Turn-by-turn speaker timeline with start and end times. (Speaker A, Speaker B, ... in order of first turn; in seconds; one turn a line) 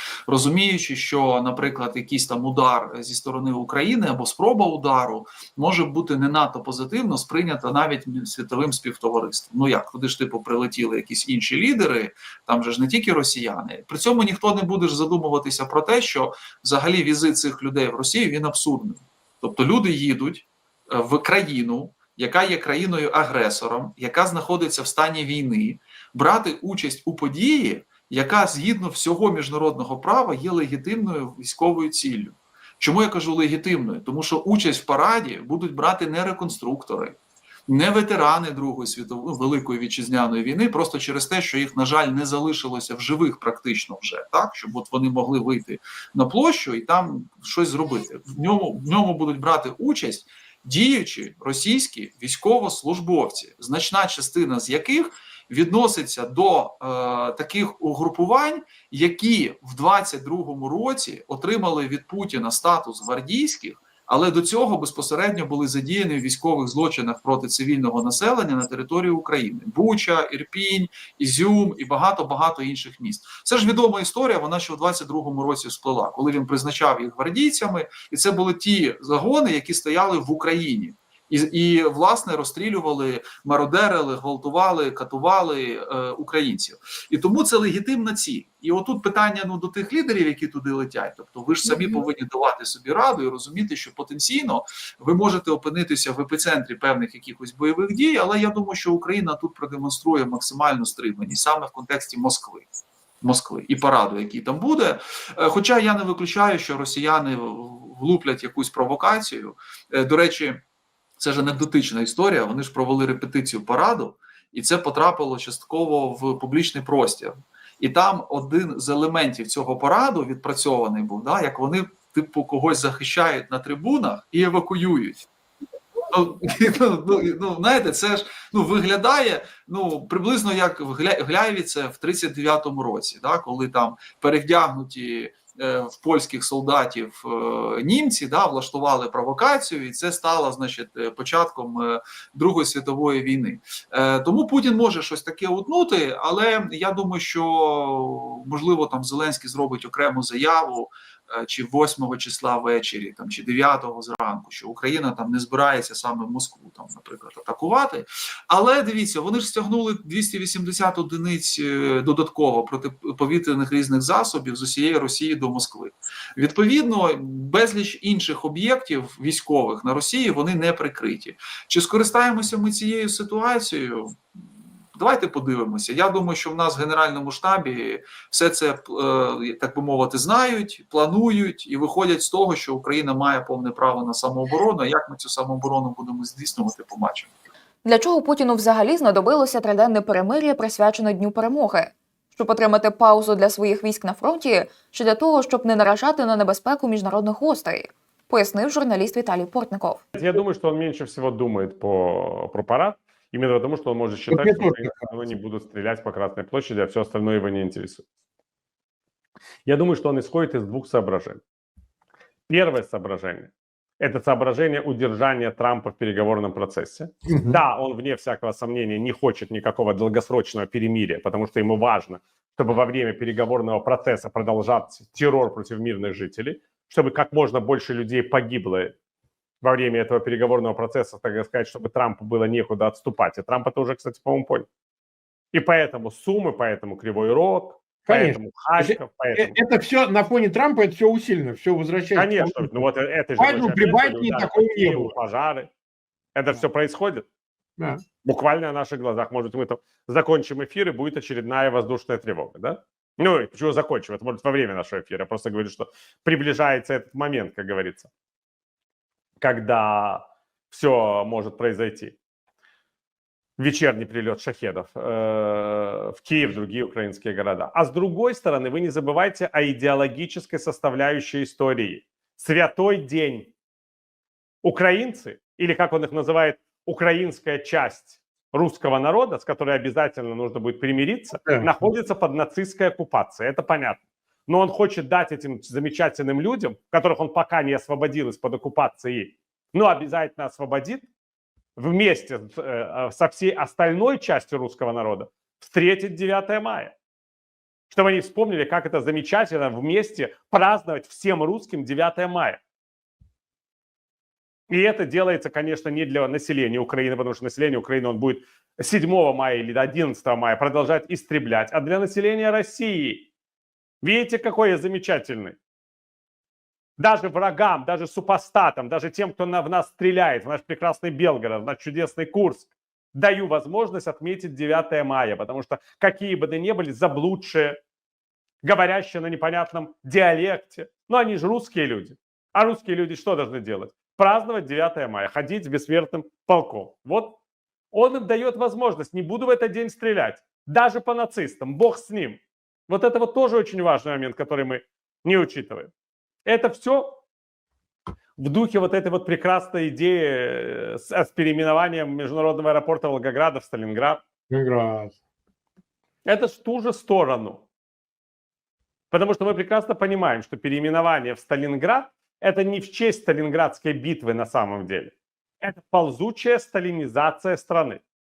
Speaker A: 0.3-102.7
Speaker A: 103.2-110.6
Speaker A: 111.2-125.3
Speaker A: 126.1-174.2
Speaker A: 174.9-187.3
Speaker B: 187.8-200.0
Speaker C: 200.1-208.0
Speaker D: 204.3-204.9
Speaker C: 209.7-211.4
Speaker C: 212.5-228.9
Speaker C: 229.6-234.7
Speaker C: 235.5-239.6
Speaker D: 238.1-242.8
Speaker C: 242.1-245.7
Speaker D: 243.4-245.1
Speaker C: 246.3-247.2
Speaker D: 247.8-248.0
Speaker C: 248.2-258.1
Speaker C: 259.4-262.1
Speaker C: 263.6-273.5
Speaker C: 274.6-291.1
Speaker D: 281.4-281.7
Speaker C: 291.8-296.9
Speaker C: 297.9-302.6
Speaker C: 304.7-313.3
Speaker C: 314.0-315.6
Speaker C: 317.0-327.8
Speaker C: 328.6-337.4
Speaker C: 337.9-345.9
Speaker C: 346.4-347.2
Speaker C: 348.4-354.2
Speaker D: 354.5-355.2
Speaker C: 356.2-357.6
Speaker C: 359.1-368.0